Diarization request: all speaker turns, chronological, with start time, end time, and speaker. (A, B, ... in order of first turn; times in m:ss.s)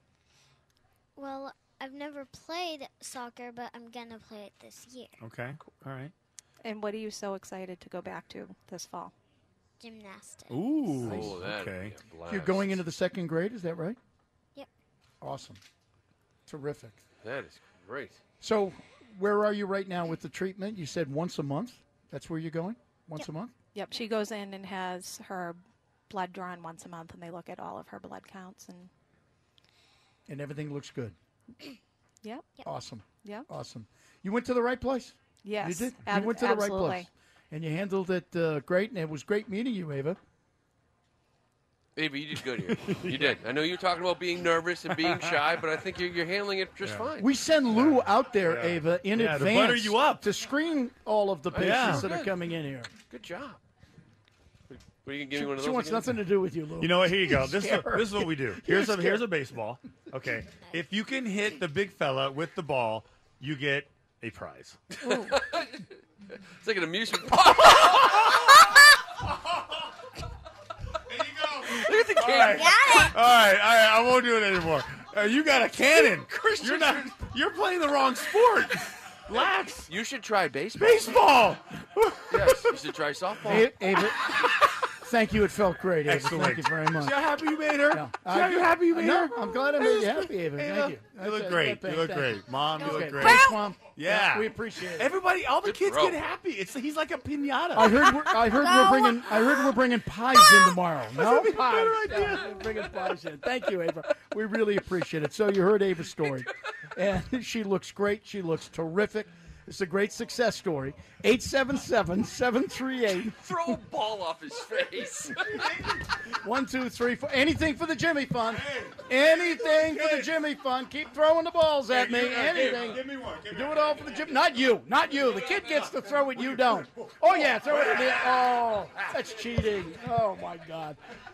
0:01.2-0:05.1 A
0:05.2-0:06.1 B
0:06.6-0:09.1 C
0:09.8-0:10.6 A
0:10.5-0:12.0 B
0:11.0-0:11.4 D
0:11.0-0:12.8 E
0:12.3-0:14.0 D
0:15.2-0:15.6 D
0:16.5-0:17.0 D
0:17.2-0:18.2 E
0:18.4-0:23.5 D
0:23.7-0:28.9 C
0:30.3-0:31.1 D
0:32.2-0:32.6 C
0:32.6-0:40.2 D
0:33.2-0:33.5 C
0:35.4-0:37.1 C
0:42.0-0:47.3 E
0:42.7-0:43.4 B
0:45.1-0:45.4 B
0:46.8-0:47.1 B
0:47.2-0:52.9 D
0:47.7-0:50.2 B
0:51.5-0:52.3 E
0:51.6-0:52.1 B
0:53.1-0:53.6 E
0:54.7-0:56.1 E
0:55.3-0:59.3 D
0:56.8-1:04.8 B
1:05.0-1:05.8 E
1:06.6-1:08.9 E
1:11.1-1:19.9 B
1:11.6-1:13.1 E
1:16.5-1:17.1 E
1:19.3-1:21.2 E
1:20.7-1:22.8 B
1:22.3-1:23.7 E
1:23.4-1:24.3 B
1:23.5-1:24.3 D
1:25.0-1:27.3 D
1:26.0-1:39.7 B
1:27.9-1:35.2 D
1:35.6-1:36.2 E
1:37.7-1:53.8 D
1:41.1-1:43.1 B
1:53.3-1:55.7 E
1:55.5-1:56.2 B
1:56.4-2:11.0 D
1:58.5-2:00.3 B
2:01.9-2:04.3 B
2:05.5-2:08.6 B